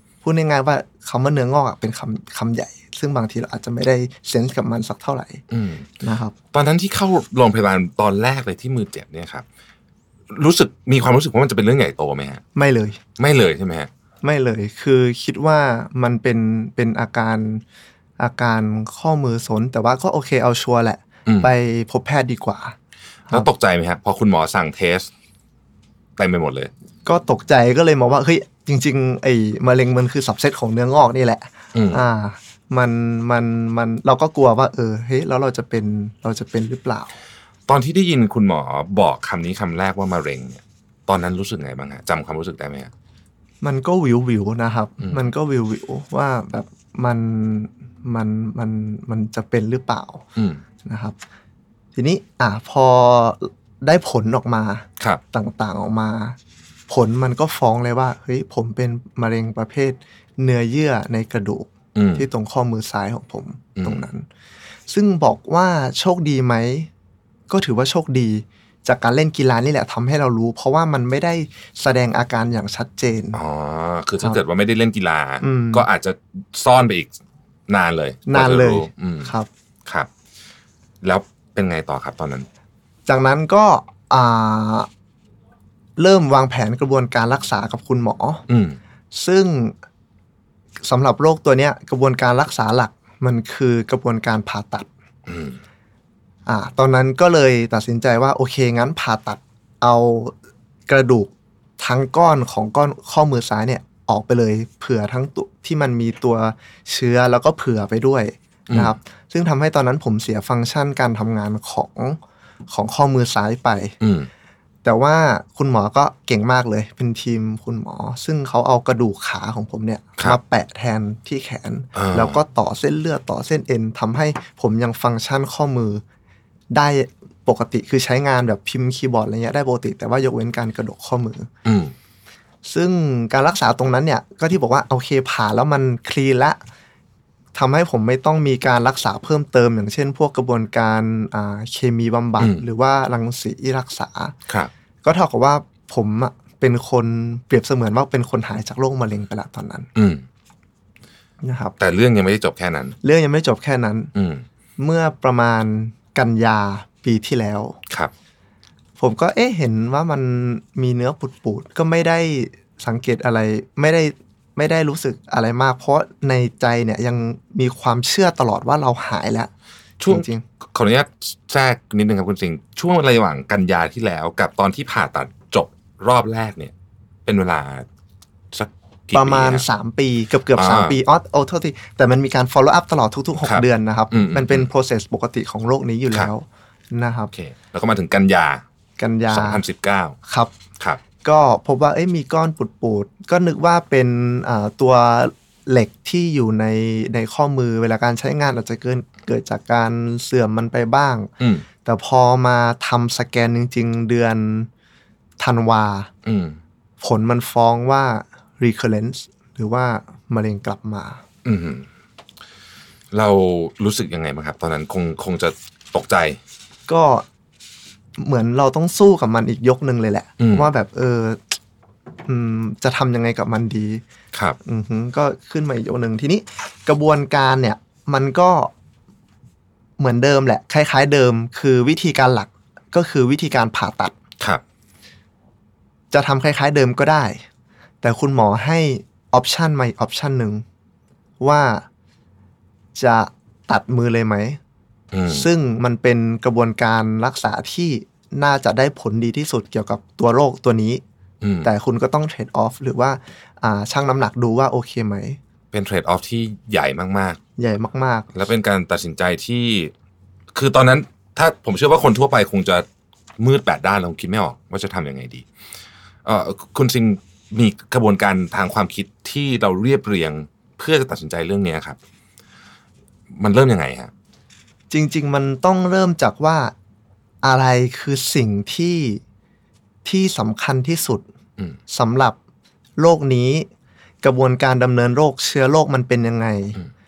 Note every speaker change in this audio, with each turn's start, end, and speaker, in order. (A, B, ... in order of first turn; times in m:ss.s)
0:00.2-0:05.4 A
0:05.5-0:05.9 B
0:06.0-0:06.4 A
0:06.5-0:09.4 B
0:10.3-0:12.4 B
0:12.6-0:13.0 A
0:13.2-0:13.9 B
0:14.2-0:17.6 A
0:18.2-0:22.8 A
0:21.3-0:21.5 B
0:23.3-0:25.1 B
0:26.2-0:26.7 B
0:27.1-0:37.1 A
0:31.7-0:32.0 B
0:37.7-0:42.9 B
0:43.6-0:50.3 A
0:50.4-0:50.6 B
0:50.8-0:51.2 A
0:52.0-0:56.4 A
0:56.9-1:04.3 A
1:02.0-1:02.3 B
1:03.8-1:04.1 B
1:04.9-1:06.9 A
1:07.5-1:13.4 A
1:13.3-1:17.1 B
1:15.4-1:15.9 A
1:17.7-1:19.3 B
1:18.3-1:19.5 A
1:21.0-1:22.5 B
1:23.1-1:24.9 A
1:26.0-1:28.4 A
1:28.5-1:28.8 B
1:29.1-1:29.8 A
1:30.8-1:34.9 A
1:35.3-1:35.6 B
1:36.5-1:40.3 A
1:40.9-1:52.2 A
1:48.7-1:49.0 B
1:52.7-1:54.0 A
1:54.0-1:54.3 B
1:54.8-2:06.0 A
2:02.0-2:02.4 B
2:06.7-2:11.5 A
2:11.6-2:11.9 B
2:12.6-2:16.6 A
2:17.5-2:24.4 A
2:22.4-2:22.6 B
2:25.0-2:29.9 A
2:30.0-2:30.2 B
2:31.4-2:31.8 A
2:31.8-2:33.0 B
2:33.0-2:34.1 A
2:34.2-2:34.4 B
2:34.8-2:37.8 A
2:39.0-2:49.5 A
2:50.0-2:56.7 B
2:50.1-2:50.4 A
2:57.3-2:57.9 B
2:58.5-2:59.7 B
2:59.1-3:07.3 A
3:00.6-3:01.0 B
3:03.4-3:04.7 B
3:07.3-3:08.6 B
3:09.0-3:09.6 A
3:09.3-3:10.2 B
3:10.3-3:10.5 A
3:11.2-3:21.3 A
3:21.4-3:21.6 B
3:21.8-3:24.7 A
3:25.4-3:26.1 A
3:26.2-3:26.6 B
3:27.0-3:31.2 A
3:31.4-3:31.9 B
3:33.1-3:36.4 B
3:36.9-3:37.3 A
3:38.2-3:41.6 A
3:40.4-3:40.7 B
3:42.3-3:44.0 A
3:44.6-3:48.7 A
3:50.0-3:54.2 A
3:56.1-3:57.4 A
3:58.0-4:00.6 A
4:01.4-4:01.9 A
4:03.0-4:04.6 A
4:05.1-4:05.5 B
4:05.3-4:11.0 A
4:11.4-4:11.7 B
4:11.6-4:15.4 A
4:15.7-4:17.4 B
4:17.6-4:18.3 A
4:18.3-4:19.9 B
4:20.5-4:22.9 B
4:23.4-4:25.5 B
4:26.2-4:32.0 B
4:33.3-4:34.1 B
4:34.9-4:36.7 A
4:37.4-4:39.2 A
4:40.0-4:41.2 A
4:41.9-4:42.4 A
4:43.0-4:43.7 A
4:44.2-4:46.8 A